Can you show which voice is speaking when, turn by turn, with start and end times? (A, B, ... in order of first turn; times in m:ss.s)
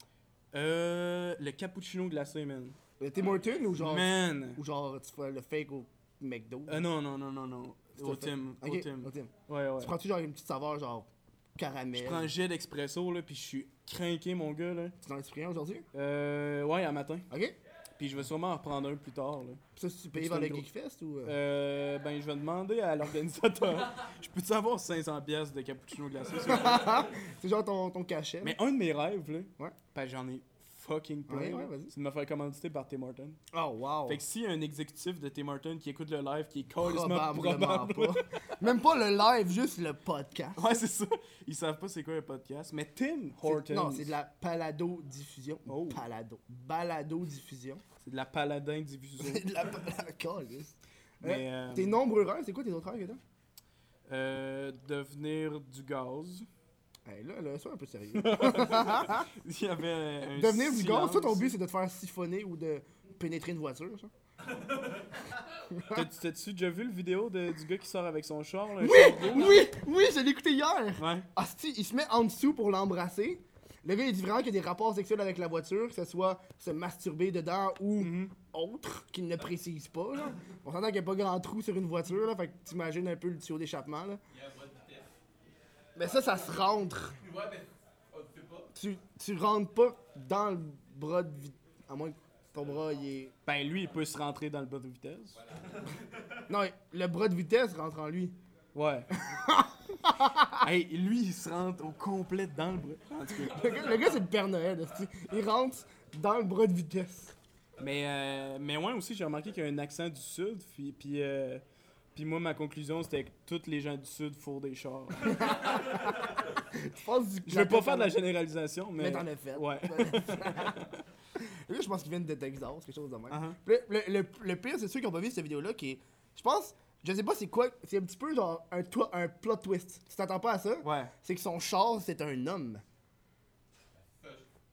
0:00.5-0:02.8 A
0:03.0-0:06.9 B
0:03.8-0:04.6 A
0:06.7-0:09.9 A
0:08.0-0:12.3 B
0:11.9-0:14.9 A
0:15.0-0:15.8 B
0:15.9-0:17.3 A
0:17.3-0:17.6 B
0:18.0-0:19.6 A
0:19.8-0:21.4 B
0:20.1-0:20.6 A
0:21.2-0:27.1 A
0:26.4-0:28.6 B
0:28.4-0:33.4 A
0:31.3-0:31.9 B
0:33.5-0:34.2 B
0:34.1-0:38.2 A
0:36.8-0:40.7 B
0:40.6-0:44.1 A
0:43.4-0:47.8 B
0:45.7-0:46.0 A
0:48.0-0:49.5 A
0:49.2-0:53.2 B
0:51.2-0:52.0 A
0:54.1-0:56.4 A
0:57.0-0:59.3 B
0:58.1-1:01.5 A
1:00.4-1:04.1 B
1:05.7-1:06.0 B
1:05.9-1:09.7 A
1:08.8-1:24.2 B
1:11.0-1:11.3 A
1:18.0-1:18.3 A
1:24.3-1:25.1 C
1:26.0-1:27.2 B
1:27.2-1:28.7 C
1:28.7-1:33.3 B
1:33.4-1:35.4 A
1:36.5-1:38.4 B
1:38.7-1:39.1 A
1:39.2-1:40.6 B
1:40.6-1:44.0 A
1:43.3-1:47.3 B
1:47.8-1:51.6 A
1:52.1-1:55.6 A
1:55.2-1:58.2 B
1:57.4-2:01.0 A
1:59.0-2:00.8 B
2:01.4-2:12.8 B
2:03.3-2:03.6 A
2:10.8-2:11.1 A
2:14.2-2:14.4 C